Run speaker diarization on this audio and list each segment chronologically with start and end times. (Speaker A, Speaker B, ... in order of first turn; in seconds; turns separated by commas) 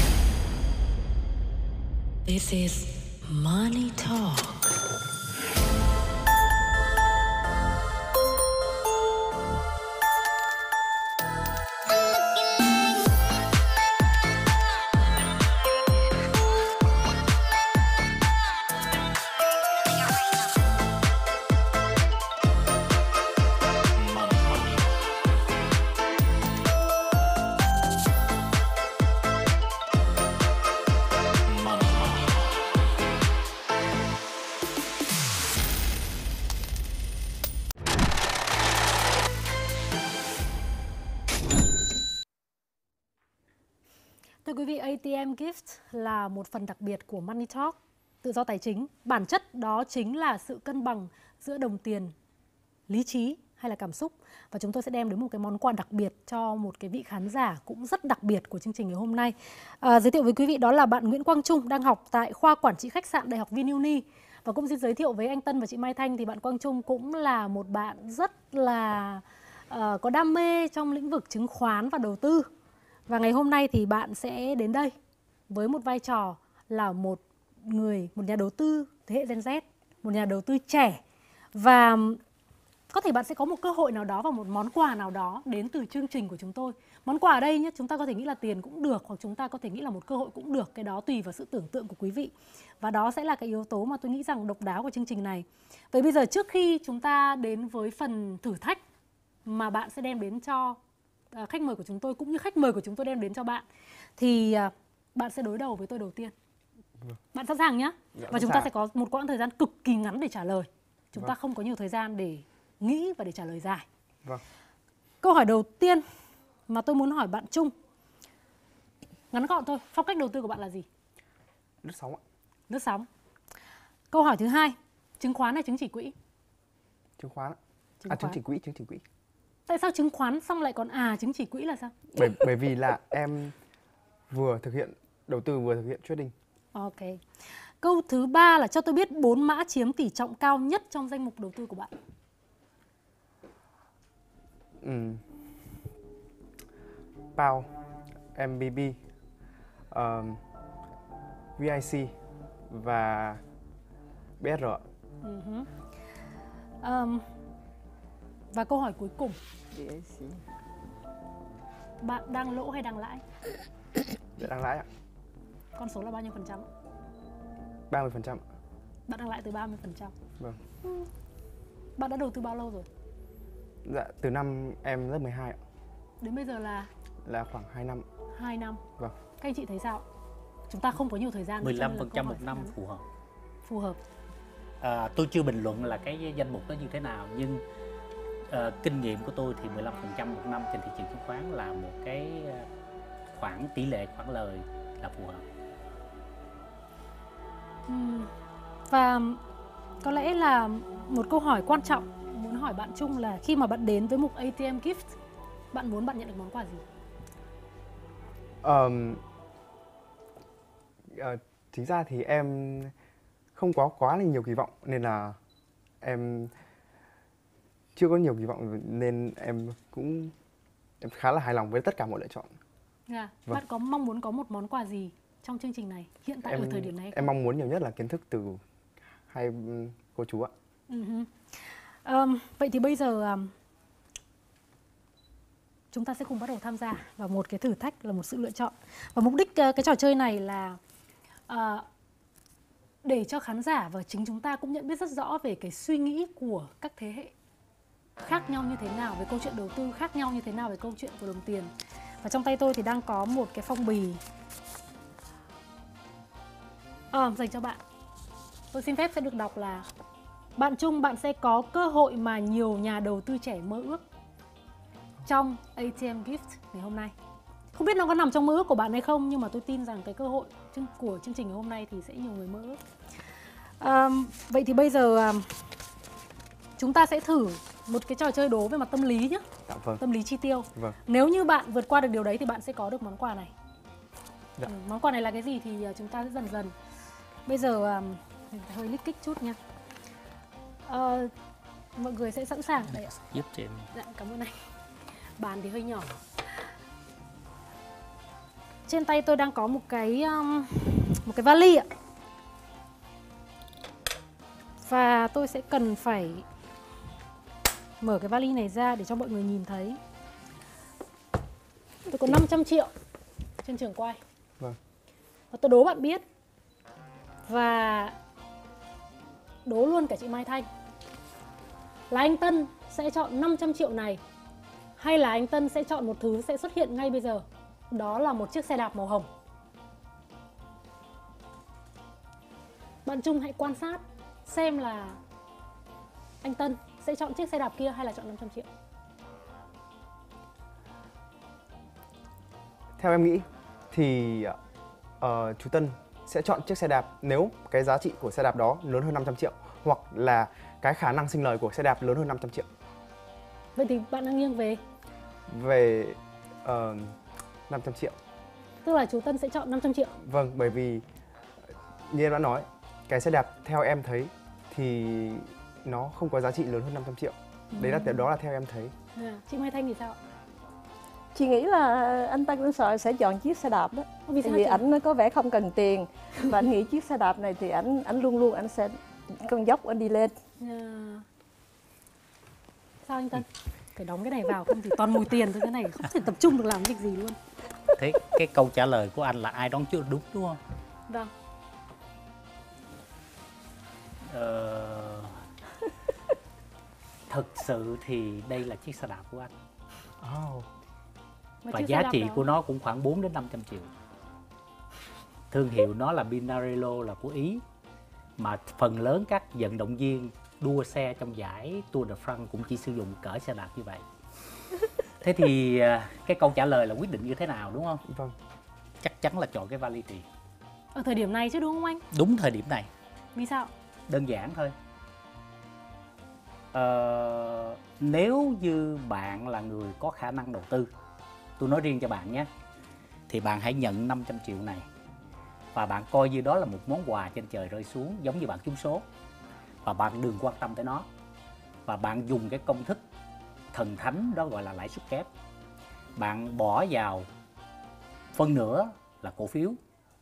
Speaker A: 2.3-4.8, Speaker B: 44.5-52.1, Speaker B: 52.9-72.5, Speaker B: 73.1-75.0, Speaker B: 75.5-81.0, Speaker B: 81.5-82.2, Speaker B: 82.9-98.8, Speaker B: 99.5-100.8, Speaker B: 101.3-103.7, Speaker B: 104.2-106.3, Speaker B: 107.3-113.8, Speaker C: 108.2-108.7, Speaker B: 115.2-116.1, Speaker B: 116.7-117.7, Speaker B: 119.3-120.9, Speaker C: 121.8-122.2, Speaker B: 122.7-123.1, Speaker B: 124.1-126.2, Speaker C: 127.2-129.0, Speaker B: 128.0-128.4, Speaker B: 129.7-132.2, Speaker C: 132.2-133.6, Speaker C: 134.3-136.3, Speaker B: 136.7-137.2, Speaker B: 137.8-141.9, Speaker C: 144.8-145.2, Speaker C: 147.4-147.7, Speaker C: 148.3-149.0, Speaker C: 149.9-150.4, Speaker C: 151.6-152.1, Speaker C: 152.7-153.4, Speaker C: 154.4-154.8, Speaker B: 155.2-155.7, Speaker B: 156.8-157.3, Speaker B: 158.5-159.4, Speaker D: 159.7-160.4, Speaker B: 162.0-163.2, Speaker C: 164.4-164.9, Speaker B: 165.8-166.7, Speaker C: 167.9-168.4, Speaker B: 169.1-170.1, Speaker B: 172.0-172.9, Speaker C: 173.8-175.6, Speaker B: 176.2-176.9, Speaker C: 177.2-178.1, Speaker B: 178.3-178.8, Speaker B: 179.4-180.0, Speaker B: 180.7-182.7, Speaker E: 181.6-183.1, Speaker B: 183.7-184.0, Speaker E: 184.8-187.6, Speaker E: 188.5-192.7, Speaker E: 193.3-195.4, Speaker B: 197.9-198.3, Speaker B: 198.9-199.4, Speaker B: 200.0-205.2, Speaker B: 205.7-206.8, Speaker C: 208.6-209.2, Speaker C: 211.1-212.9, Speaker C: 213.6-215.4, Speaker C: 216.0-216.5, Speaker C: 218.0-220.3, Speaker C: 221.0-222.5, Speaker B: 223.1-227.3, Speaker C: 226.4-228.6, Speaker C: 229.3-230.5, Speaker B: 230.9-233.5, Speaker B: 235.9-240.8, Speaker B: 241.5-241.9, Speaker B: 243.0-247.3, Speaker B: 248.2-251.7, Speaker B: 252.2-254.2, Speaker B: 257.1-257.8, Speaker B: 258.7-259.9, Speaker B: 260.6-264.0, Speaker B: 265.3-267.1, Speaker B: 267.7-272.8, Speaker B: 273.8-275.6, Speaker B: 276.8-279.4, Speaker C: 279.7-280.0, Speaker B: 280.0-283.5, Speaker B: 284.6-286.7, Speaker B: 287.5-289.6, Speaker B: 290.9-291.3, Speaker B: 292.0-293.1, Speaker E: 292.9-293.9, Speaker B: 293.9-294.6, Speaker B: 295.4-296.2, Speaker B: 298.9-301.9, Speaker B: 304.8-306.4, Speaker B: 308.0-310.0, Speaker B: 312.1-312.9, Speaker B: 313.6-314.2, Speaker B: 315.5-316.2, Speaker B: 317.5-318.2, Speaker B: 319.6-320.7, Speaker B: 322.1-324.2, Speaker B: 325.0-329.3, Speaker B: 333.1-335.2, Speaker B: 336.4-338.7, Speaker C: 343.0-344.6, Speaker C: 345.2-352.7, Speaker B: 353.8-354.8, Speaker C: 355.5-357.2, Speaker C: 357.7-358.2, Speaker B: 358.8-360.1, Speaker C: 360.2-361.0, Speaker C: 362.1-368.9, Speaker B: 367.7-368.2, Speaker B: 369.1-370.2, Speaker D: 371.3-380.4, Speaker B: 374.3-374.9, Speaker B: 380.6-381.2, Speaker B: 383.1-387.4, Speaker E: 387.9-390.6, Speaker E: 394.3-395.4, Speaker E: 397.3-399.5, Speaker C: 400.2-400.7, Speaker B: 401.6-402.4, Speaker E: 401.7-403.9, Speaker E: 405.5-407.6, Speaker E: 408.4-414.1, Speaker E: 415.2-418.0, Speaker C: 418.1-418.4, Speaker E: 419.0-420.3, Speaker B: 420.9-422.0, Speaker E: 422.1-422.9, Speaker B: 423.4-423.7, Speaker E: 424.1-424.7, Speaker E: 426.7-430.9, Speaker E: 431.6-432.5, Speaker E: 433.3-434.9, Speaker E: 435.7-439.1, Speaker E: 439.8-441.1, Speaker E: 441.9-443.0, Speaker E: 443.7-445.3, Speaker E: 446.2-447.3, Speaker E: 448.3-449.8